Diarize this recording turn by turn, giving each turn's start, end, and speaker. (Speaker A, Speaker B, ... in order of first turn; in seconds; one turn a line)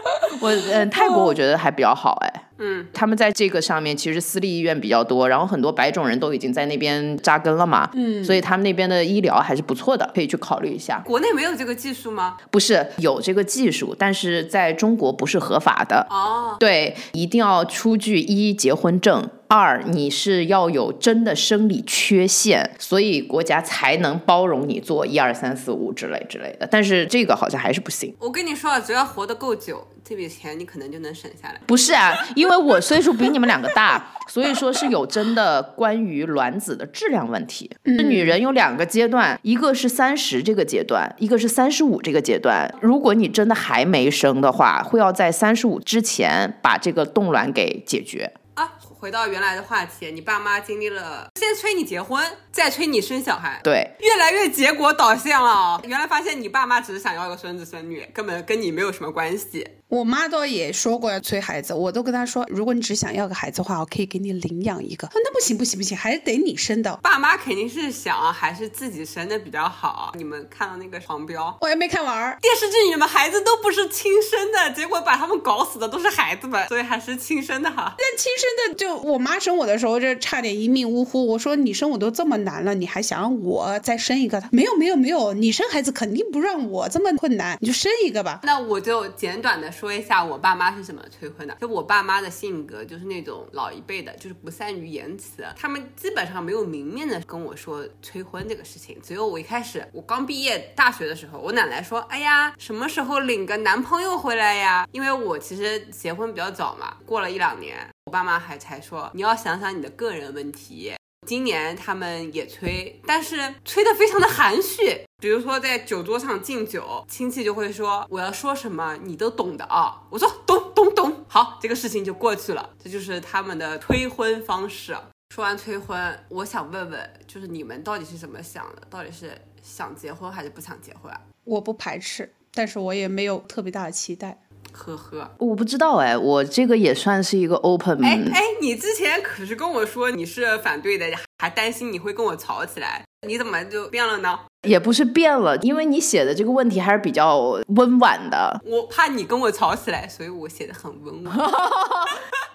Speaker A: 0.3-11.0
Speaker B: 0.7-1.4
Speaker C: 2.6-2.9
Speaker B: 7.9-8.4
Speaker C: 11.0-12.4
Speaker A: 12.5-16.1
Speaker C: 16.1-16.6
Speaker A: 16.6-28.1
Speaker C: 28.2-31.7
Speaker A: 31.7-48.3
Speaker B: 37.8-38.3
Speaker C: 48.5-59.7
Speaker A: 53.6-53.9
Speaker B: 59.9-67.0
Speaker C: 67.0-71.6
Speaker B: 71.6-72.4
Speaker C: 72.4-78.0
Speaker B: 78.0-88.4
Speaker C: 88.4-131.2
Speaker B: 131.4-134.4
Speaker C: 134.7-135.3
Speaker A: 135.4-138.4
Speaker C: 138.0-144.4
Speaker A: 144.6-148.6
Speaker C: 148.6-151.5
Speaker A: 151.3-152.2